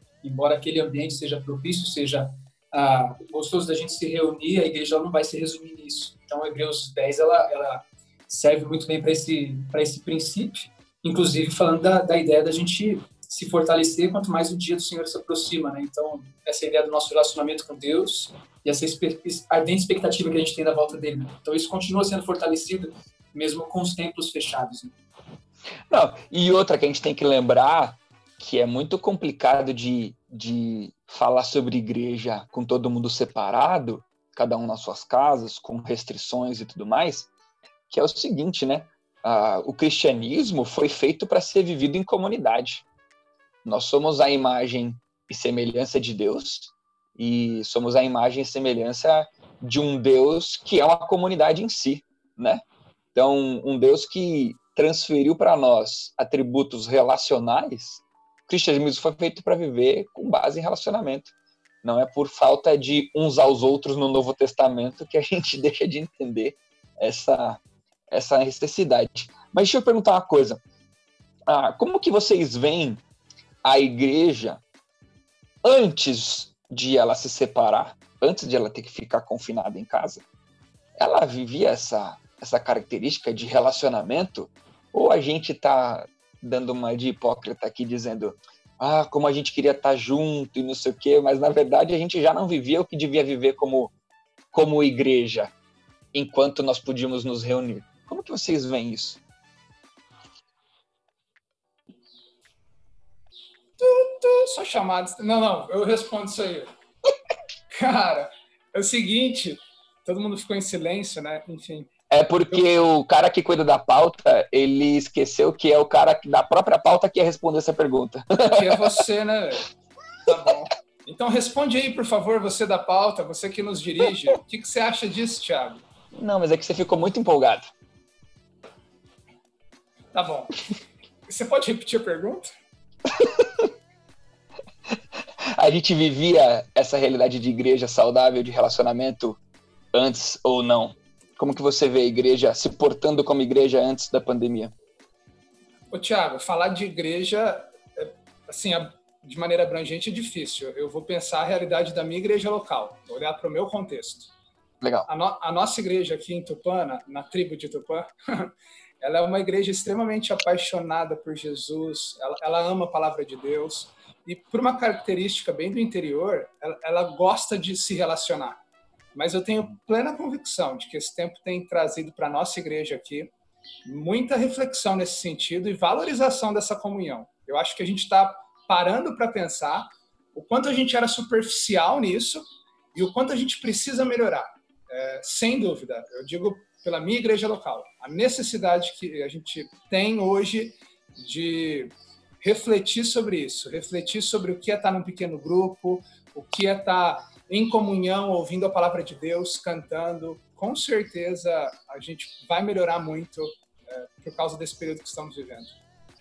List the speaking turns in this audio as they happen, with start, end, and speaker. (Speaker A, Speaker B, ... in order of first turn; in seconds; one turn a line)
Speaker A: 0.2-24.9
Speaker B: 25.9-37.3
Speaker B: 37.9-42.8
Speaker B: 43.6-52.6
Speaker B: 53.1-61.3
Speaker B: 61.8-67.6
Speaker B: 68.1-70.6
Speaker B: 71.5-73.0
Speaker B: 73.6-74.6
Speaker B: 75.6-80.2
Speaker B: 81.0-93.9
Speaker B: 94.5-95.5
Speaker B: 96.1-99.2
Speaker C: 103.8-106.7
Speaker C: 107.7-111.9
Speaker B: 112.1-119.0
Speaker C: 118.5-119.7
Speaker C: 120.3-125.8
Speaker B: 126.1-127.7
Speaker C: 130.1-130.5
Speaker C: 131.3-132.5
Speaker B: 133.1-133.7
Speaker B: 135.6-139.4
Speaker B: 139.9-144.7
Speaker C: 145.9-154.3
Speaker B: 154.8-155.1
Speaker C: 155.1-168.6
Speaker C: 169.2-173.3
Speaker C: 173.8-205.8